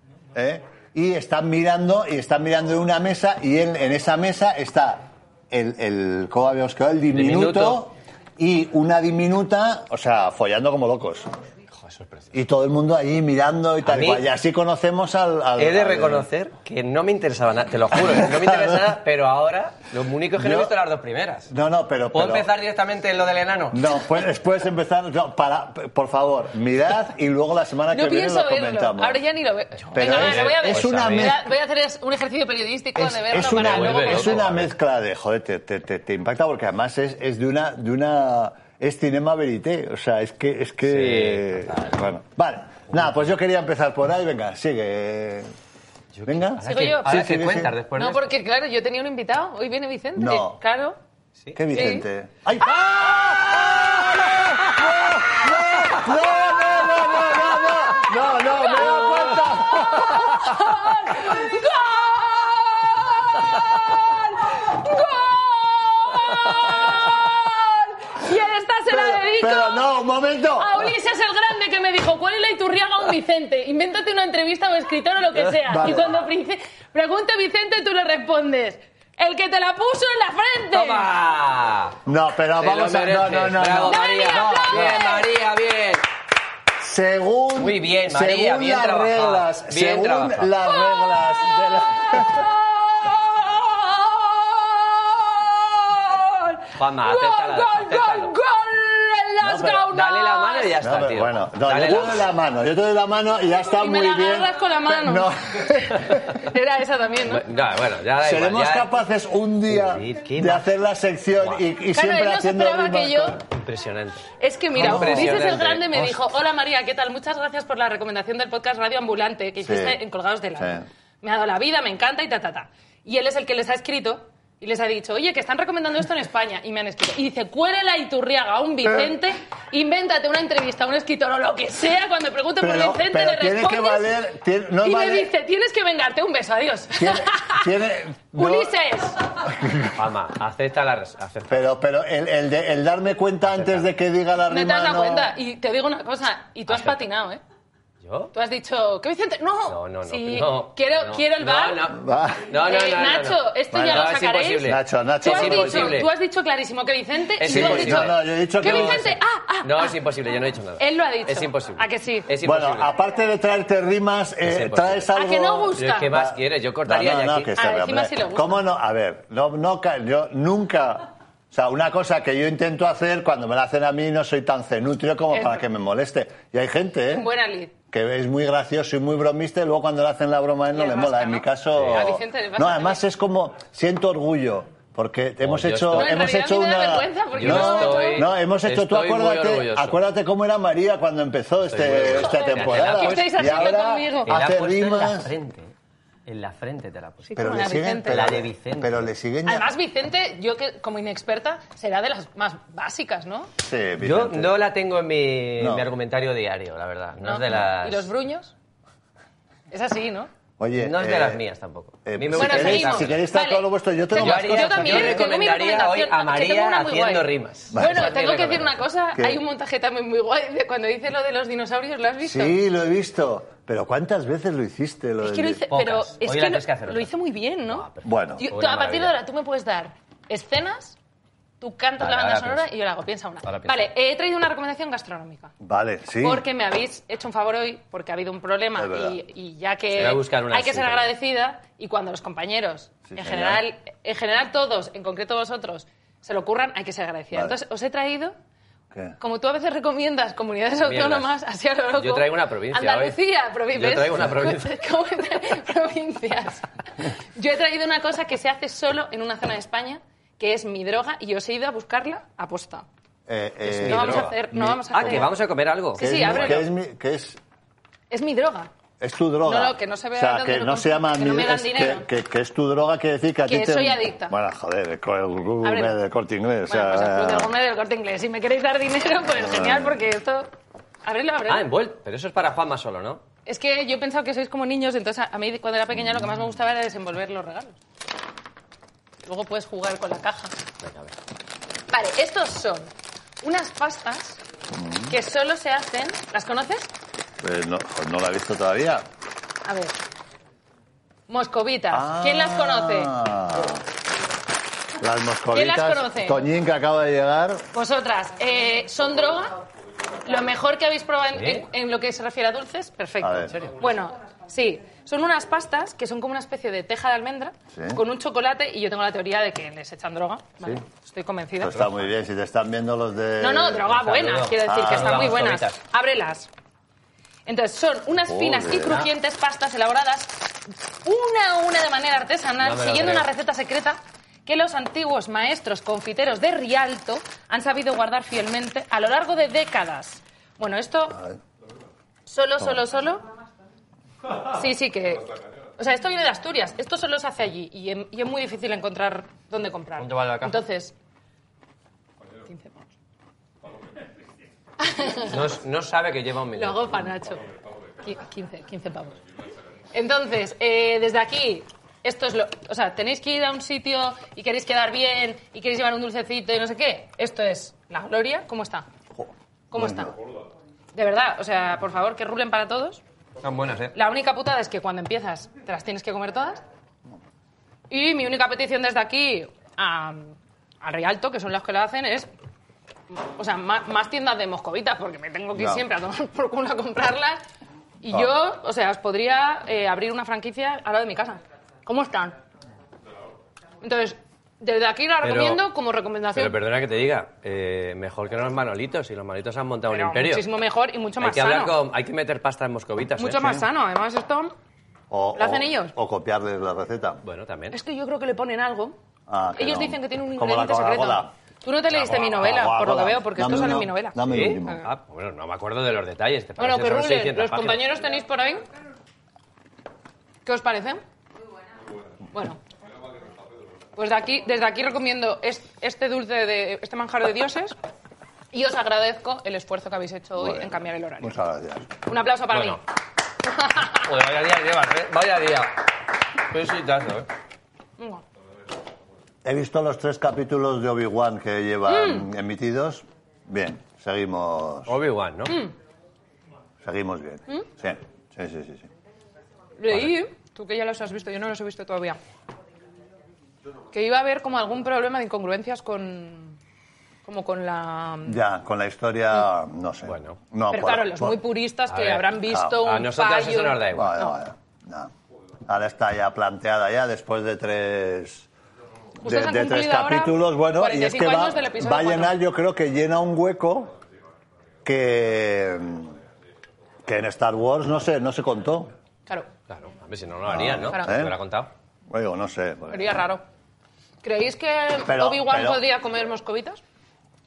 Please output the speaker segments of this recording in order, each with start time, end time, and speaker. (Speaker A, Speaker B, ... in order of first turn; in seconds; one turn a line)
Speaker A: 0.3-11.3
Speaker B: 7.1-7.9
Speaker B: 11.7-12.3
Speaker A: 12.3-16.3
Speaker B: 13.8-14.3
Speaker B: 15.6-21.5
Speaker A: 17.9-18.8
Speaker A: 20.4-20.7
Speaker A: 21.5-22.5
Speaker B: 22.1-23.9
Speaker A: 23.7-29.2
Speaker C: 27.9-34.5
Speaker A: 29.9-31.4
Speaker B: 29.9-31.3
Speaker A: 33.0-45.5
Speaker B: 33.4-34.7
Speaker B: 40.9-42.0
Speaker B: 46.1-48.3
Speaker A: 46.3-47.7
Speaker C: 46.6-47.3
Speaker C: 48.0-51.0
Speaker A: 50.2-50.6
Speaker A: 51.5-61.4
Speaker C: 51.7-52.1
Speaker C: 52.7-53.9
Speaker C: 57.2-69.9
Speaker B: 58.8-59.2
Speaker A: 68.9-70.9
Speaker C: 70.5-81.1
Speaker B: 75.4-76.0
Speaker A: 75.7-76.1
Speaker B: 80.7-82.0
Speaker A: 82.1-85.1
Speaker B: 82.6-86.0
Speaker C: 83.8-85.2
Speaker A: 86.8-92.5
Speaker B: 87.6-90.5
Speaker C: 90.6-100.8
Speaker B: 96.8-98.3
Speaker A: 99.4-99.9
Speaker B: 99.9-102.3
Speaker A: 100.8-106.3
Speaker C: 103.7-105.3
Speaker C: 106.1-107.4
Speaker B: 107.3-108.9
Speaker A: 108.2-113.4
Speaker B: 109.7-110.7
Speaker C: 111.9-113.4
Speaker B: 113.5-116.2
Speaker C: 114.4-134.1
Speaker A: 114.8-115.5
Speaker A: 119.6-120.0
Speaker A: 120.6-120.8
Speaker A: 132.6-135.3
Speaker C: 134.8-137.7
Speaker A: 137.0-138.7
Speaker C: 138.3-139.2
Speaker A: 139.4-140.1
Speaker B: 139.9-141.7
Speaker A: 141.5-145.3
Speaker B: 143.5-143.9
Speaker C: 144.5-147.4
Speaker B: 146.7-147.0
Speaker B: 148.0-148.3
Speaker C: 148.3-151.9
Speaker B: 149.7-156.1
Speaker A: 151.9-152.5
Speaker C: 152.6-160.0
Speaker A: 153.7-154.1
Speaker A: 154.6-156.0
Speaker B: 157.4-159.1
Speaker A: 157.5-159.2
Speaker B: 159.6-162.9
Speaker C: 160.8-162.3
Speaker A: 162.4-177.3
Speaker B: 164.4-165.1
Speaker C: 165.1-166.1
Speaker B: 165.8-167.5
Speaker C: 167.6-168.6
Speaker C: 175.3-175.6
Speaker C: 177.1-177.7
Speaker A: 177.9-195.3
Speaker C: 180.7-183.0
Speaker B: 185.4-186.3
Speaker C: 185.9-188.3
Speaker B: 187.3-190.0
Speaker B: 191.7-195.7
Speaker C: 192.1-194.3
Speaker B: 196.3-199.1
Speaker C: 197.3-198.2
Speaker A: 197.4-199.7
Speaker C: 199.5-203.5
Speaker A: 203.6-204.6
Speaker B: 204.0-208.1
Speaker A: 205.6-205.9
Speaker C: 207.2-208.5
Speaker C: 209.7-210.3
Speaker A: 210.6-211.4
Speaker B: 210.8-213.2
Speaker A: 212.1-215.3
Speaker C: 212.3-222.6
Speaker B: 214.2-218.8
Speaker A: 217.7-218.1
Speaker A: 219.2-219.4
Speaker A: 222.2-225.7
Speaker C: 225.2-227.9
Speaker B: 225.7-227.1
Speaker B: 227.6-229.2
Speaker A: 228.0-228.4
Speaker C: 228.4-231.0
Speaker C: 231.6-235.5
Speaker B: 232.0-232.7
Speaker B: 233.4-233.9
Speaker A: 235.6-236.4
Speaker C: 236.2-248.4
Speaker A: 238.8-239.2
Speaker B: 240.0-241.1
Speaker A: 243.1-243.6
Speaker A: 248.9-249.2
Speaker C: 249.2-262.9
Speaker B: 250.8-251.3
Speaker B: 251.9-253.2
Speaker B: 253.7-254.8
Speaker A: 263.3-265.3
Speaker B: 263.7-264.3
Speaker C: 263.8-265.4
Speaker B: 264.9-266.6
Speaker C: 265.9-266.7
Speaker A: 265.9-267.4
Speaker C: 268.1-268.7
Speaker A: 269.0-277.5
Speaker C: 269.4-272.1
Speaker C: 273.5-274.4
Speaker C: 275.6-276.0
Speaker C: 276.7-280.5
Speaker A: 279.4-280.0
Speaker C: 281.0-281.7
Speaker B: 281.5-283.2
Speaker C: 283.5-287.8
Speaker C: 289.2-290.6
Speaker B: 290.8-291.1
Speaker C: 291.9-292.9
Speaker C: 293.4-294.4
Speaker A: 294.7-295.1
Speaker C: 295.1-296.9
Speaker A: 297.4-299.1
Speaker C: 299.6-300.0
Speaker C: 301.3-303.3
Speaker A: 301.9-303.8
Speaker A: 305.0-307.7
Speaker C: 305.5-306.4
Speaker C: 307.7-309.6
Speaker C: 310.2-321.9
Speaker B: 311.4-311.7
Speaker A: 313.2-313.6
Speaker A: 317.7-318.0
Speaker A: 321.6-323.9
Speaker C: 323.4-326.5
Speaker B: 323.9-325.8
Speaker A: 324.6-325.3
Speaker C: 327.5-341.3
Speaker A: 328.3-329.0
Speaker B: 332.6-333.3
Speaker C: 342.3-343.3
Speaker C: 344.4-350.9
Speaker B: 350.0-350.6
Speaker C: 352.4-352.7
Speaker C: 354.8-355.4
Speaker B: 355.2-357.0
Speaker C: 356.6-359.2
Speaker C: 359.9-368.9
Speaker A: 369.2-370.1
Speaker C: 369.7-370.1
Speaker C: 370.9-373.0
Speaker B: 373.4-373.9
Speaker C: 373.9-376.6
Speaker C: 377.9-382.3
Speaker C: 383.1-387.4
Speaker A: 385.6-385.8
Speaker C: 388.0-392.4
Speaker C: 393.8-396.6
Speaker B: 395.2-395.6
Speaker B: 396.3-400.5
Speaker C: 399.9-401.8
Speaker B: 401.2-403.7
Speaker C: 403.2-404.5
Speaker A: 405.1-407.2
Speaker C: 405.4-405.9
Speaker B: 407.2-407.8
Speaker C: 407.7-409.0
Speaker A: 409.3-411.3
Speaker C: 409.6-414.9
Speaker B: 412.0-412.3
Speaker A: 412.0-414.8
Speaker B: 414.2-417.8
Speaker C: 416.6-418.6
Speaker C: 420.4-421.0
Speaker C: 422.3-422.6
Speaker C: 423.9-427.8
Speaker C: 428.5-431.4
Speaker A: 430.4-431.9
Speaker C: 432.1-432.8
Speaker B: 432.5-432.8
Speaker C: 433.4-434.1
Speaker B: 434.0-437.3
Speaker C: 438.0-438.2
Speaker A: 439.4-444.9
Speaker C: 441.9-442.3
Speaker B: 444.9-445.6
Speaker C: 445.5-445.7
Speaker A: 446.8-448.9
Speaker C: 449.8-452.2
Speaker C: 453.9-456.6
Speaker C: 457.3-458.4
Speaker A: 458.2-461.4
Speaker B: 460.1-460.4
Speaker C: 460.7-464.4
Speaker B: 461.9-464.2
Speaker A: 462.5-462.8
Speaker A: 463.9-465.1
Speaker A: 465.7-468.5
Speaker C: 469.2-472.4
Speaker A: 469.2-474.0
Speaker A: 474.8-476.2
Speaker A: 477.1-478.9
Speaker B: 479.7-481.7
Speaker A: 480.5-481.4
Speaker C: 480.9-481.2
Speaker A: 482.1-483.2
Speaker C: 482.9-483.4
Speaker C: 484.2-486.8
Speaker A: 485.1-485.8